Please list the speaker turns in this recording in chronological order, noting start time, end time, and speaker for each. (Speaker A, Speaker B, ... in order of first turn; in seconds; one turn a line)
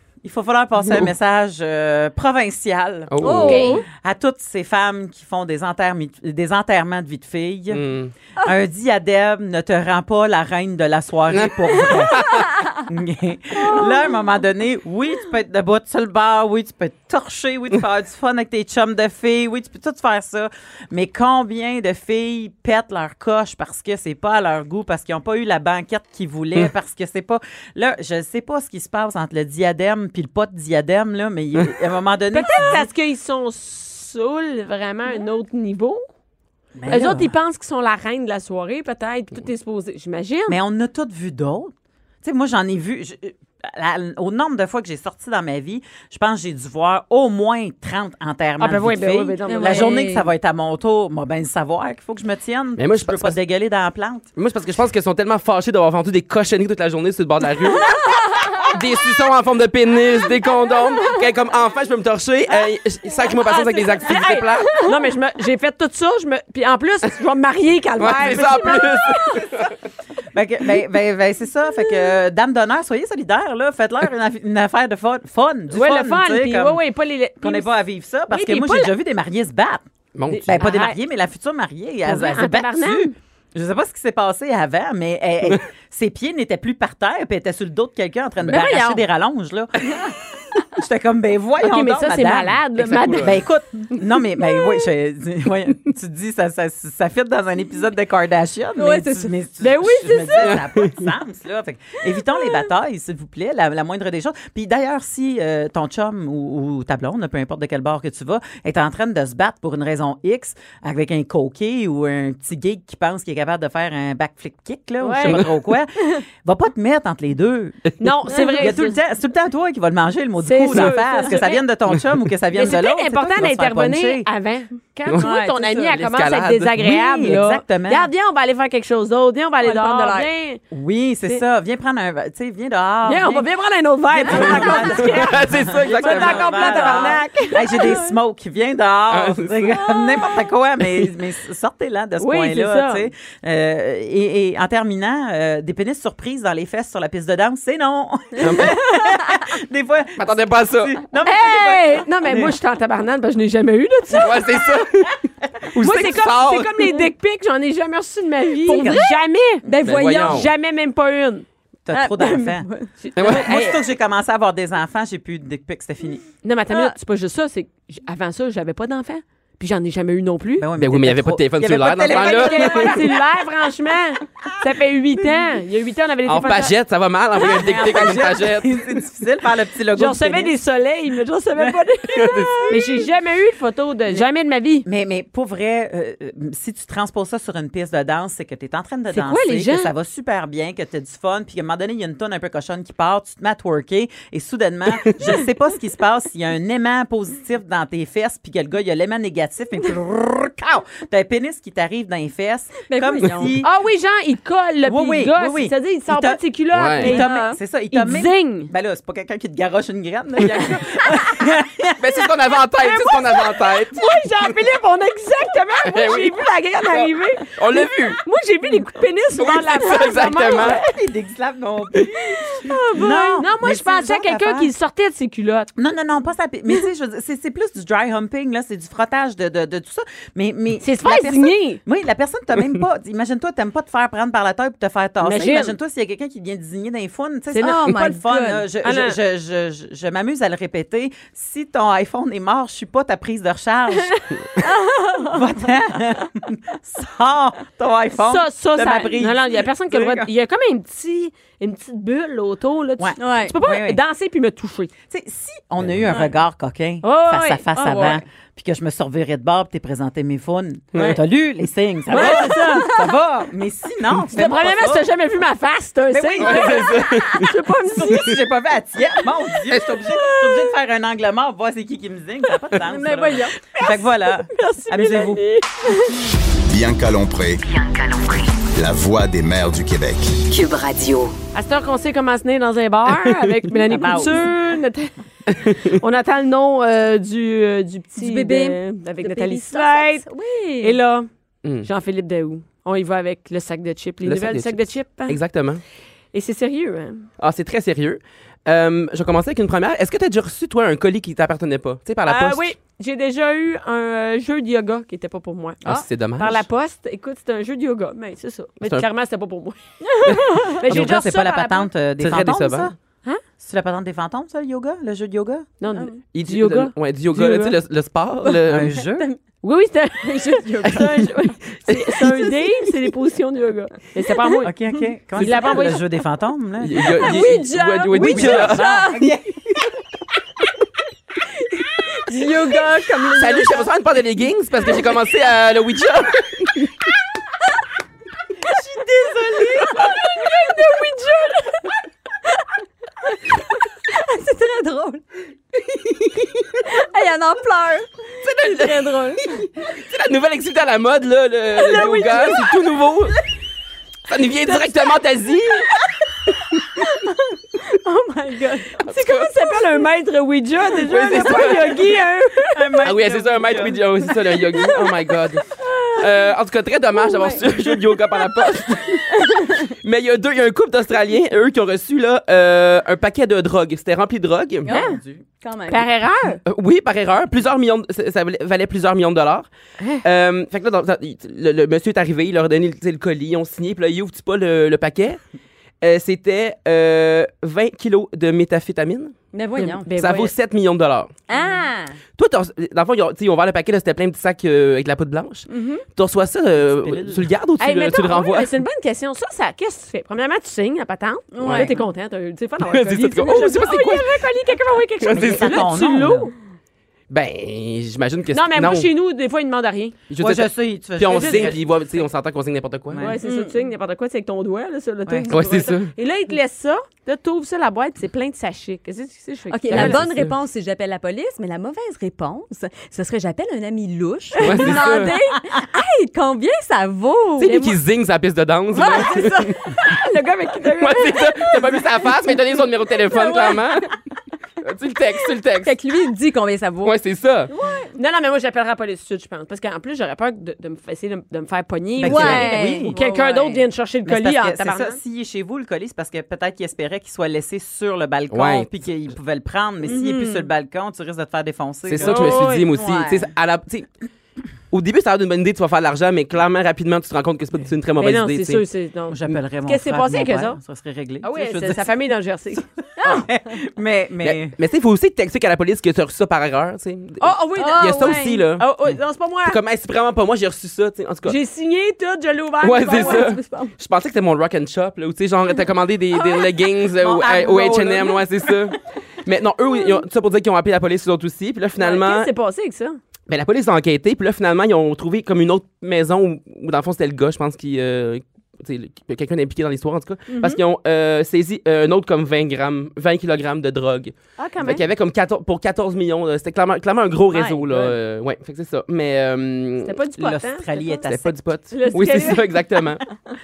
Speaker A: 0.2-7.8
Speaker B: 3.1-3.7
Speaker C: 3.2-3.8
Speaker D: 3.4-3.8
Speaker B: 7.7-8.1
Speaker A: 8.4-32.9
Speaker B: 11.3-12.5
Speaker D: 32.3-36.0
Speaker A: 36.8-37.3
Speaker D: 36.9-40.6
Speaker A: 40.5-54.3
Speaker D: 48.6-50.0
Speaker C: 49.5-50.3
Speaker B: 52.8-53.4
Speaker B: 54.4-64.8
Speaker D: 63.4-69.4
Speaker B: 68.0-69.8
Speaker A: 70.3-76.8
Speaker D: 75.7-77.8
Speaker A: 77.4-79.8
Speaker D: 78.3-78.9
Speaker B: 80.1-80.5
Speaker D: 80.3-81.0
Speaker A: 80.4-90.0
Speaker D: 82.0-83.1
Speaker C: 88.4-89.0
Speaker A: 90.7-124.3
Speaker D: 91.6-93.4
Speaker B: 92.8-93.3
Speaker C: 98.8-99.3
Speaker D: 99.6-100.6
Speaker B: 100.4-100.9
Speaker D: 115.0-115.4
Speaker B: 115.2-115.5
Speaker D: 118.0-119.0
Speaker C: 118.3-118.7
Speaker D: 120.4-121.6
Speaker D: 122.5-130.6
Speaker B: 125.1-126.8
Speaker C: 125.2-125.7
Speaker A: 126.8-128.1
Speaker C: 129.6-130.3
Speaker A: 130.7-133.4
Speaker D: 133.1-138.1
Speaker A: 134.1-152.6
Speaker C: 134.2-135.0
Speaker B: 134.6-136.7
Speaker C: 136.8-137.9
Speaker B: 139.1-139.9
Speaker D: 142.2-143.1
Speaker B: 148.4-148.8
Speaker B: 150.2-150.9
Speaker D: 151.2-154.5
Speaker B: 154.1-156.7
Speaker D: 155.8-161.4
Speaker A: 158.7-159.0
Speaker C: 158.7-159.1
Speaker C: 159.6-160.5
Speaker B: 159.8-160.5
Speaker A: 161.8-166.2
Speaker C: 161.9-162.9
Speaker D: 163.0-163.8
Speaker B: 163.2-163.5
Speaker D: 166.4-170.7
Speaker A: 170.6-173.2
Speaker B: 170.8-173.0
Speaker D: 172.1-176.8
Speaker B: 176.2-179.0
Speaker A: 177.3-180.5
Speaker D: 179.9-184.8
Speaker A: 181.6-183.0
Speaker B: 182.1-182.7
Speaker A: 184.8-203.7
Speaker D: 189.1-189.9
Speaker C: 202.9-203.6
Speaker D: 203.6-207.4
Speaker A: 204.8-206.4
Speaker B: 206.7-207.1
Speaker A: 207.0-212.3
Speaker C: 207.0-207.6
Speaker D: 207.9-208.7
Speaker B: 212.0-214.0
Speaker D: 212.8-220.9
Speaker B: 215.8-218.2
Speaker B: 219.3-220.8
Speaker A: 220.4-224.7
Speaker D: 222.3-225.7
Speaker A: 225.8-244.2
Speaker D: 230.8-231.8
Speaker D: 235.2-235.8
Speaker D: 237.5-238.2
Speaker C: 237.6-238.6
Speaker D: 238.8-239.2
Speaker C: 244.6-245.4
Speaker A: 245.2-250.3
Speaker D: 248.2-254.9
Speaker A: 253.0-254.0
Speaker C: 253.2-253.5
Speaker A: 255.1-265.1
Speaker D: 257.0-258.2
Speaker C: 257.8-258.2
Speaker D: 262.1-263.0
Speaker C: 262.1-263.0
Speaker D: 264.3-268.4
Speaker A: 266.1-267.3
Speaker B: 266.4-267.5
Speaker A: 267.8-275.4
Speaker B: 269.7-270.0
Speaker D: 270.0-270.7
Speaker C: 272.8-273.6
Speaker D: 273.6-276.2
Speaker E: 276.7-277.6
Speaker F: 277.6-278.7
Speaker E: 278.7-280.4
Speaker F: 280.5-281.3
Speaker D: 281.5-290.2
Speaker B: 283.1-283.5
Speaker A: 283.9-284.5
Speaker B: 285.5-285.9
Speaker C: 288.2-290.9
Speaker D: 290.8-291.3
Speaker B: 291.6-291.9
Speaker D: 291.8-295.4
Speaker B: 294.2-295.8
Speaker D: 296.3-297.3
Speaker B: 297.4-302.7
Speaker D: 302.2-311.9
Speaker B: 305.8-306.6
Speaker C: 310.0-310.8
Speaker A: 310.8-312.9
Speaker B: 312.2-312.9
Speaker A: 313.6-315.7
Speaker D: 315.8-317.8
Speaker C: 315.9-316.2
Speaker B: 316.3-319.0
Speaker A: 318.6-319.3
Speaker D: 319.6-324.7
Speaker C: 320.2-321.3
Speaker B: 321.9-322.2
Speaker C: 324.5-325.0
Speaker A: 324.6-327.6
Speaker D: 325.4-326.1
Speaker B: 326.8-328.9
Speaker C: 327.1-329.3
Speaker A: 328.1-329.8
Speaker C: 332.0-333.9
Speaker B: 333.4-336.9
Speaker A: 338.6-340.2
Speaker D: 339.9-341.9
Speaker C: 343.5-345.2
Speaker C: 346.7-349.5
Speaker B: 348.4-353.4
Speaker C: 351.8-352.7
Speaker D: 351.9-352.6
Speaker B: 354.3-355.9
Speaker C: 357.0-359.0
Speaker D: 359.0-363.1
Speaker B: 359.0-359.5
Speaker B: 361.0-362.0
Speaker A: 362.7-364.3
Speaker B: 363.0-374.9
Speaker C: 365.8-366.2
Speaker C: 367.2-367.6
Speaker C: 369.4-369.9
Speaker C: 374.8-376.1
Speaker D: 374.9-375.2
Speaker A: 374.9-375.4
Speaker D: 375.9-376.6
Speaker B: 376.6-379.7
Speaker B: 380.2-385.4
Speaker B: 386.0-389.4
Speaker C: 389.5-390.1
Speaker D: 389.8-390.5
Speaker B: 390.1-391.3
Speaker C: 391.5-392.2
Speaker B: 392.4-398.7
Speaker C: 395.7-396.0
Speaker A: 396.8-397.5
Speaker D: 397.8-406.5
Speaker C: 401.5-401.9
Speaker B: 401.6-401.9
Speaker B: 402.8-404.4
Speaker B: 405.2-405.8
Speaker A: 405.3-406.5
Speaker B: 407.3-409.1
Speaker D: 408.5-410.2
Speaker B: 410.3-413.3
Speaker A: 410.4-411.9
Speaker D: 411.2-411.8
Speaker A: 413.1-413.4
Speaker D: 413.2-420.2
Speaker C: 413.4-413.8
Speaker B: 415.5-416.1
Speaker C: 419.7-427.9
Speaker B: 419.9-420.6
Speaker B: 424.6-425.3
Speaker D: 424.6-425.3
Speaker B: 427.6-429.7
Speaker C: 428.9-430.0
Speaker D: 429.3-432.0
Speaker B: 431.0-434.1
Speaker C: 433.3-434.0
Speaker B: 434.8-435.9
Speaker C: 435.8-437.1
Speaker B: 437.0-437.7
Speaker C: 437.7-438.1
Speaker D: 438.1-445.2
Speaker A: 442.2-443.1
Speaker C: 442.2-443.8
Speaker A: 444.2-452.6
Speaker B: 448.5-448.9
Speaker C: 450.0-450.7
Speaker B: 452.1-454.1
Speaker D: 452.2-452.9
Speaker C: 452.7-453.5
Speaker B: 454.9-458.8
Speaker D: 458.2-460.8
Speaker A: 459.3-462.1
Speaker D: 461.4-462.9
Speaker A: 463.2-464.8
Speaker B: 464.4-468.8
Speaker D: 467.4-469.8
Speaker C: 467.8-468.6
Speaker B: 469.6-471.6
Speaker D: 471.4-473.5
Speaker B: 472.8-482.5
Speaker C: 473.0-473.9
Speaker A: 477.1-478.8
Speaker D: 482.0-483.2
Speaker B: 483.5-500.2
Speaker C: 490.5-490.8
Speaker D: 494.6-495.0
Speaker C: 497.5-497.9
Speaker D: 500.0-501.2
Speaker A: 500.4-501.5
Speaker B: 501.3-503.2
Speaker D: 501.9-503.0